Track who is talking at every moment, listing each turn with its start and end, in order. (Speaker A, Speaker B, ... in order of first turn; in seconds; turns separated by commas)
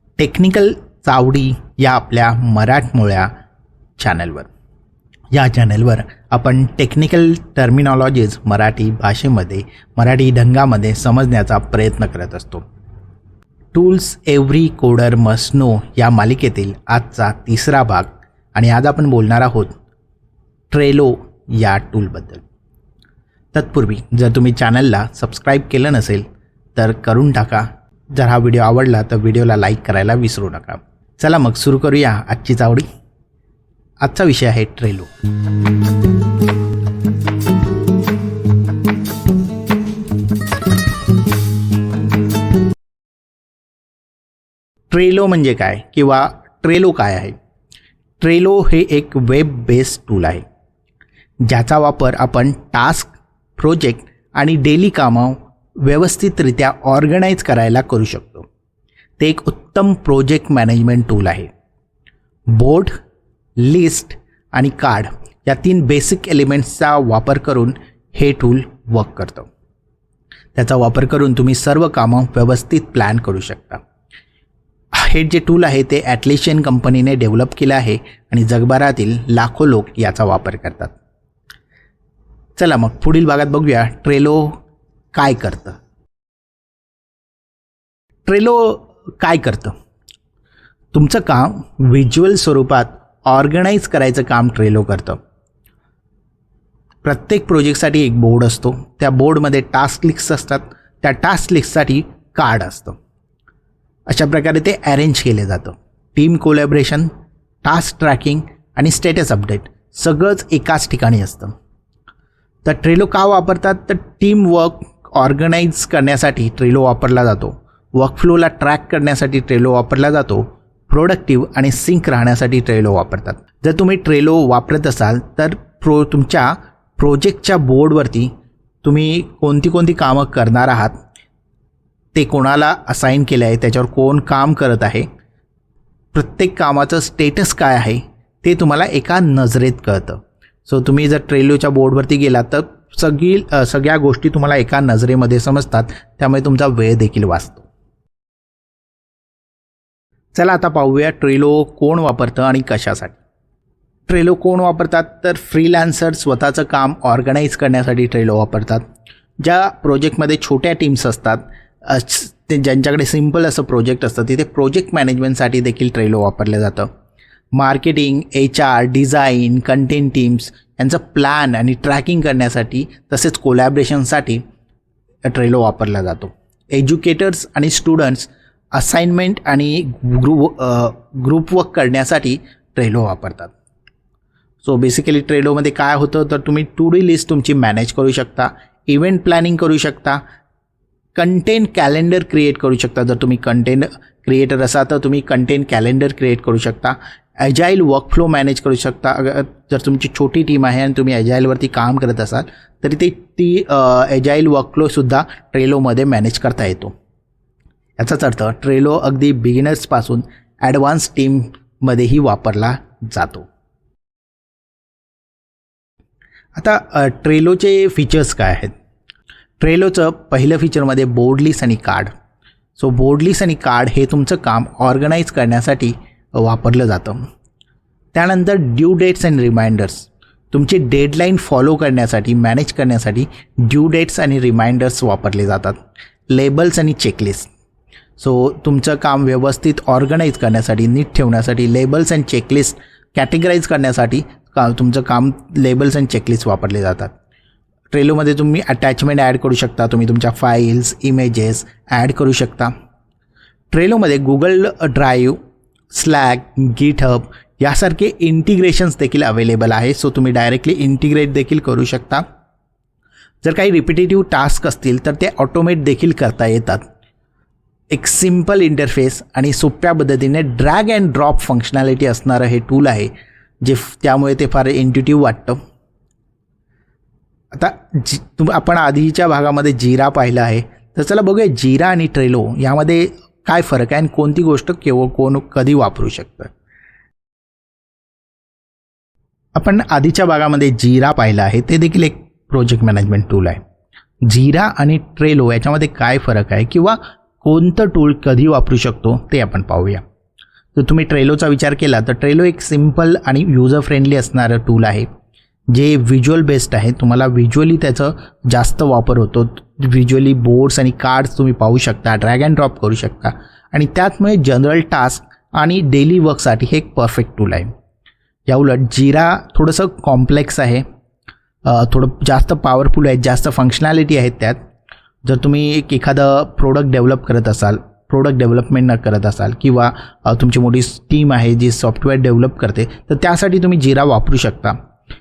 Speaker A: 0.2-3.3, Speaker A: 4.0-4.5, Speaker A: 5.3-12.7, Speaker A: 13.7-19.7, Speaker A: 20.7-22.4, Speaker A: 23.5-32.9, Speaker A: 34.0-35.1, Speaker A: 44.9-47.3, Speaker A: 48.2-50.4, Speaker A: 51.4-58.5, Speaker A: 59.2-61.5, Speaker A: 62.5-63.0, Speaker A: 63.6-69.5, Speaker A: 70.5-73.8, Speaker A: 74.9-80.9, Speaker A: 82.5-84.6, Speaker A: 85.1-85.8, Speaker A: 88.2-89.7, Speaker A: 90.9-95.2, Speaker A: 97.0-103.0, Speaker A: 104.1-107.1, Speaker A: 107.6-111.5, Speaker A: 112.6-128.3, Speaker A: 128.8-131.0, Speaker A: 132.1-135.1, Speaker A: 136.1-147.7, Speaker A: 150.3-153.2, Speaker A: 154.1-158.8, Speaker A: 159.4-166.9, Speaker A: 167.5-174.4, Speaker A: 175.2-183.5, Speaker A: 184.6-190.2, Speaker A: 191.1-206.9, Speaker A: 208.0-213.5, Speaker A: 216.5-218.7, Speaker A: 219.6-222.1, Speaker A: 222.8-227.2, Speaker A: 228.1-235.8, Speaker A: 236.3-237.5, Speaker A: 238.2-247.1, Speaker A: 247.9-252.7, Speaker A: 253.7-255.4, Speaker A: 255.9-262.2, Speaker A: 263.4-266.8, Speaker A: 267.9-273.1, Speaker A: 273.6-275.6, Speaker A: 277.5-286.5, Speaker A: 289.5-293.6, Speaker A: 294.2-300.0, Speaker A: 300.8-305.1, Speaker A: 305.7-317.7, Speaker A: 318.5-320.8, Speaker A: 321.6-324.6, Speaker A: 325.2-334.8